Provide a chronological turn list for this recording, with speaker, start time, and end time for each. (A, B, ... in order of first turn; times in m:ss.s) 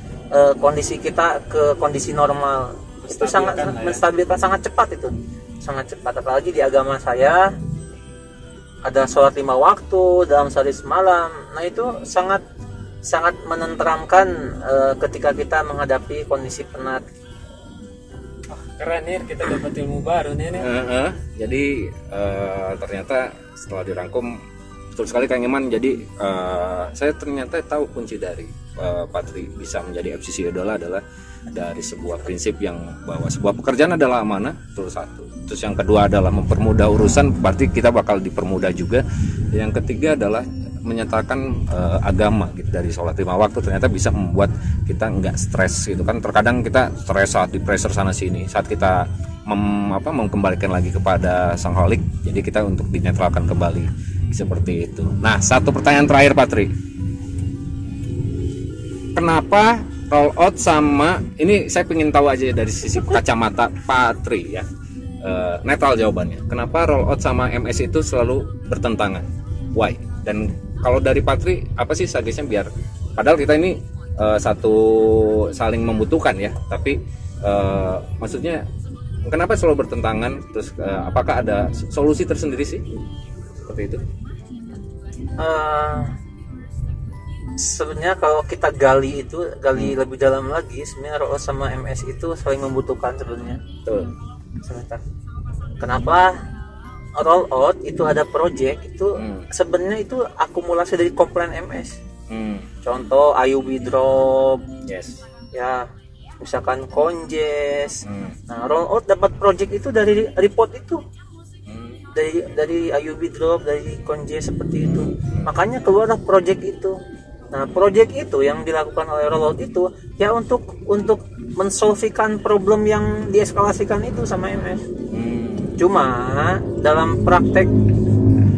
0:00.3-0:07.5 A
0:03.0-0:04.0 B
0:08.8-0:12.4 A
0:13.0-0:17.1 A
0:18.5-0:20.7 B
0:20.6-0:24.4 C
0:25.0-0:56.7 C
0:59.2-1:04.7 C
1:05.2-1:18.6 C
1:19.3-1:22.8 C
1:23.6-1:24.0 C
1:25.4-1:26.1 A
1:27.6-1:33.6 A
1:33.9-1:34.1 C
1:34.6-1:35.0 A
1:35.8-1:36.3 A
1:37.2-1:42.0 A
1:39.2-1:39.5 C
1:42.3-1:42.7 C
1:42.8-1:44.6 A
1:44.8-1:45.2 C
1:45.5-1:45.9 A
1:46.4-1:51.0 A
1:48.0-1:48.4 C
1:51.7-1:52.0 C
1:52.1-1:57.0 A
1:54.9-1:55.5 C
1:57.5-2:04.8 A
2:05.1-2:05.8 C
2:05.8-2:07.7 A